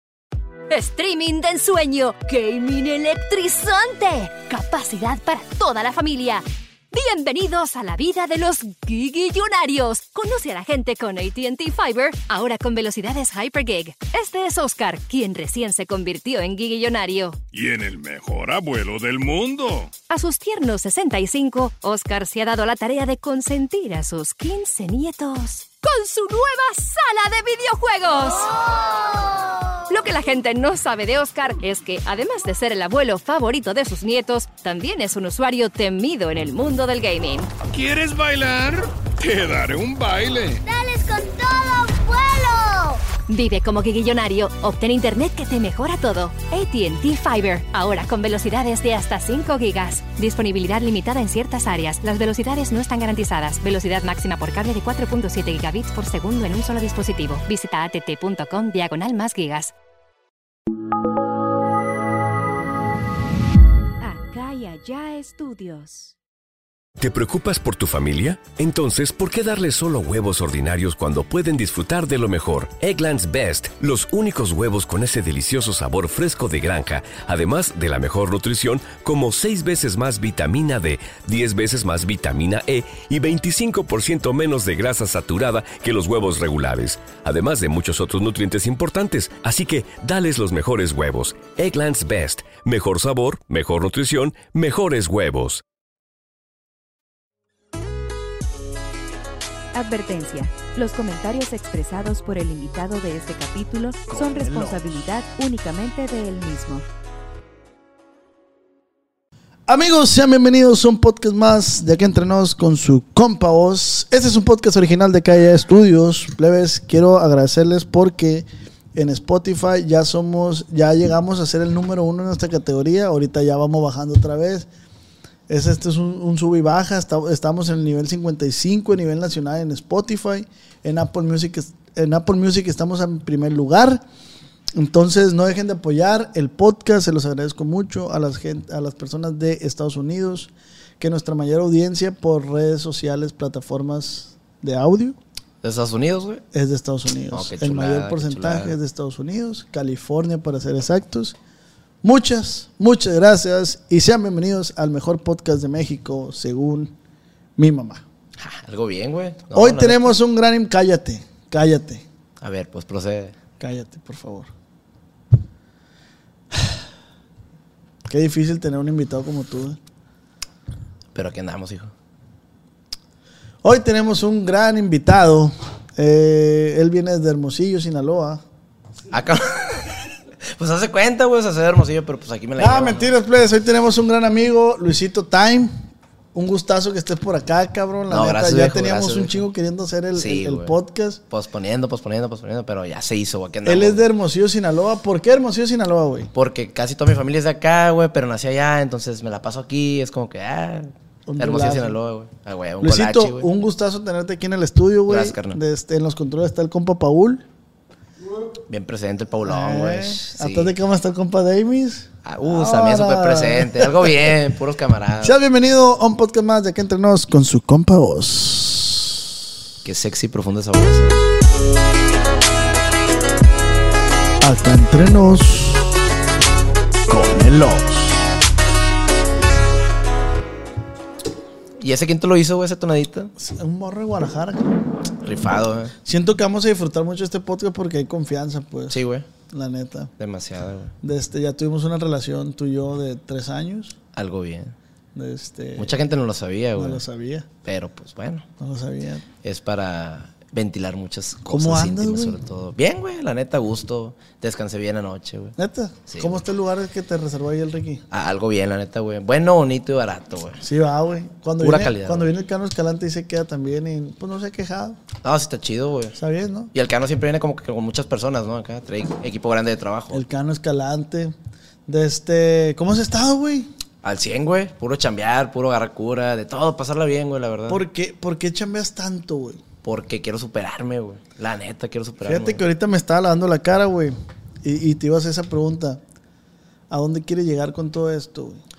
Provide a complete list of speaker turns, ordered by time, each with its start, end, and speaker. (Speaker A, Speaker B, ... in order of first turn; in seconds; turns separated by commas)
Speaker A: 0.7-17.4, Speaker B: 17.5-19.9, Speaker A: 20.1-28.6, Speaker A: 29.9-37.5, Speaker B: 37.7-40.6, Speaker C: 40.6-43.0, Speaker A: 43.3-59.7, Speaker C: 64.0-66.1, Speaker D: 67.0-95.6, Speaker C: 99.7-106.8, Speaker E: 104.1-105.0, Speaker E: 109.7-124.7, Speaker E: 125.5-134.0, Speaker E: 134.7-145.2, Speaker F: 145.6-146.4, Speaker E: 146.5-151.4, Speaker F: 147.3-148.8, Speaker E: 152.0-156.9, Speaker E: 157.6-158.0, Speaker F: 158.4-160.2, Speaker E: 159.5-162.1, Speaker F: 162.4-163.4, Speaker E: 163.6-164.5, Speaker E: 168.1-169.8, Speaker F: 171.2-171.9, Speaker E: 173.6-178.4, Speaker F: 179.1-179.9, Speaker F: 180.6-183.1, Speaker E: 182.6-185.8, Speaker E: 186.3-191.2, Speaker F: 188.1-189.4, Speaker F: 190.2-190.8, Speaker F: 191.3-194.1, Speaker E: 193.7-196.3, Speaker F: 196.3-203.5, Speaker E: 201.3-202.0, Speaker E: 202.8-207.4, Speaker F: 205.1-205.6, Speaker F: 208.7-210.8, Speaker E: 209.4-214.1, Speaker F: 212.2-215.4, Speaker E: 215.2-219.2, Speaker F: 219.8-221.2, Speaker E: 224.4-225.8, Speaker E: 227.1-228.3, Speaker F: 231.8-233.3, Speaker E: 233.4-234.7, Speaker F: 235.2-235.9, Speaker E: 236.0-240.1, Speaker F: 238.9-239.3, Speaker F: 240.2-240.9, Speaker E: 241.0-244.0, Speaker F: 244.1-244.7, Speaker E: 245.2-246.0, Speaker F: 245.8-247.0, Speaker E: 246.8-247.5, Speaker F: 247.6-248.5, Speaker E: 248.6-249.3, Speaker F: 249.4-255.6, Speaker E: 251.5-252.4, Speaker E: 255.6-258.0, Speaker F: 256.1-256.4, Speaker F: 258.1-260.6, Speaker E: 260.6-265.0, Speaker F: 261.6-262.3, Speaker F: 265.2-266.2, Speaker E: 266.2-266.7, Speaker F: 266.7-270.2, Speaker E: 270.1-271.4, Speaker E: 271.9-273.7, Speaker F: 274.0-277.8, Speaker E: 277.7-279.6, Speaker F: 279.8-282.6, Speaker E: 282.2-286.0, Speaker E: 286.9-288.6